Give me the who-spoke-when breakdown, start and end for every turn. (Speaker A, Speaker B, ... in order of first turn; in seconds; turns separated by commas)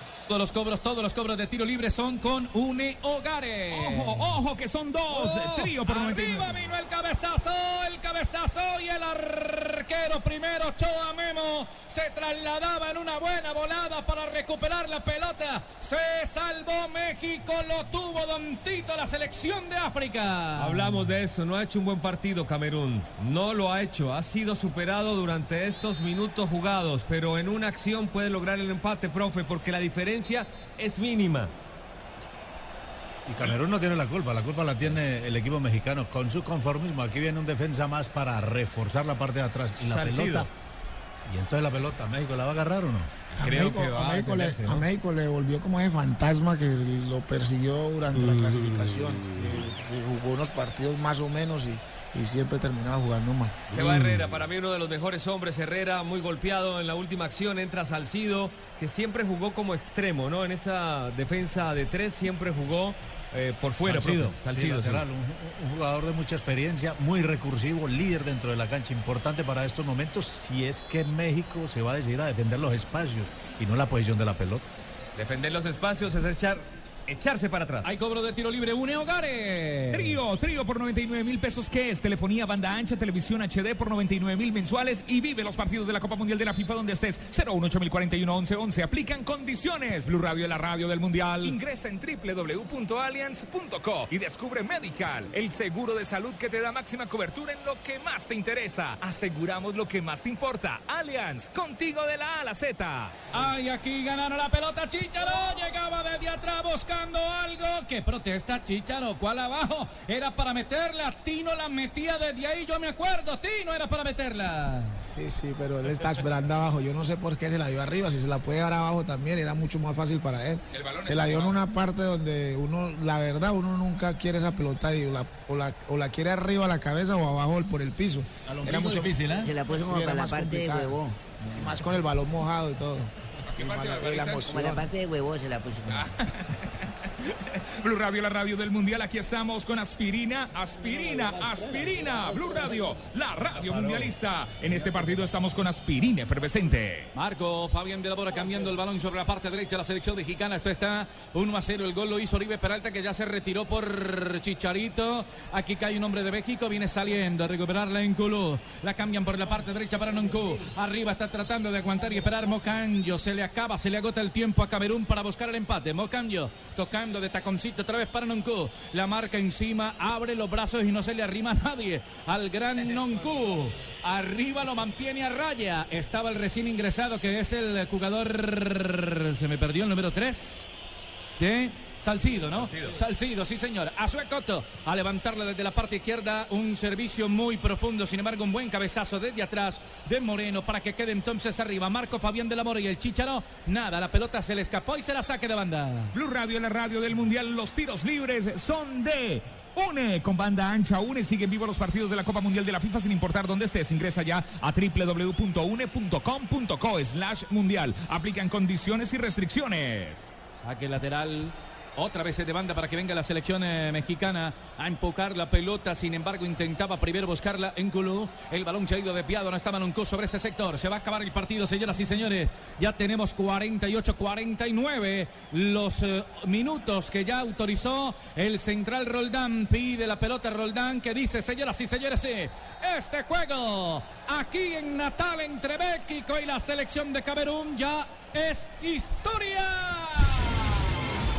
Speaker A: 0.3-4.6, Speaker B: 3.7-6.6, Speaker A: 5.1-20.9, Speaker C: 20.6-31.5, Speaker D: 33.2-40.5, Speaker C: 39.8-40.5, Speaker D: 41.3-43.1, Speaker C: 43.4-44.9, Speaker E: 43.4-53.7, Speaker C: 53.7-65.0, Speaker D: 63.8-74.7, Speaker C: 75.2-77.9, Speaker A: 77.8-80.3, Speaker B: 79.9-103.3, Speaker A: 103.3-115.0, Speaker E: 115.0-131.0, Speaker B: 120.7-121.6, Speaker A: 128.6-129.5, Speaker F: 129.4-131.8, Speaker E: 131.5-134.9, Speaker B: 133.4-134.6, Speaker F: 134.4-136.2, Speaker B: 135.9-147.1, Speaker A: 147.1-180.7, Speaker A: 181.4-196.1, Speaker C: 182.5-183.0, Speaker B: 196.1-210.3, Speaker A: 210.6-240.7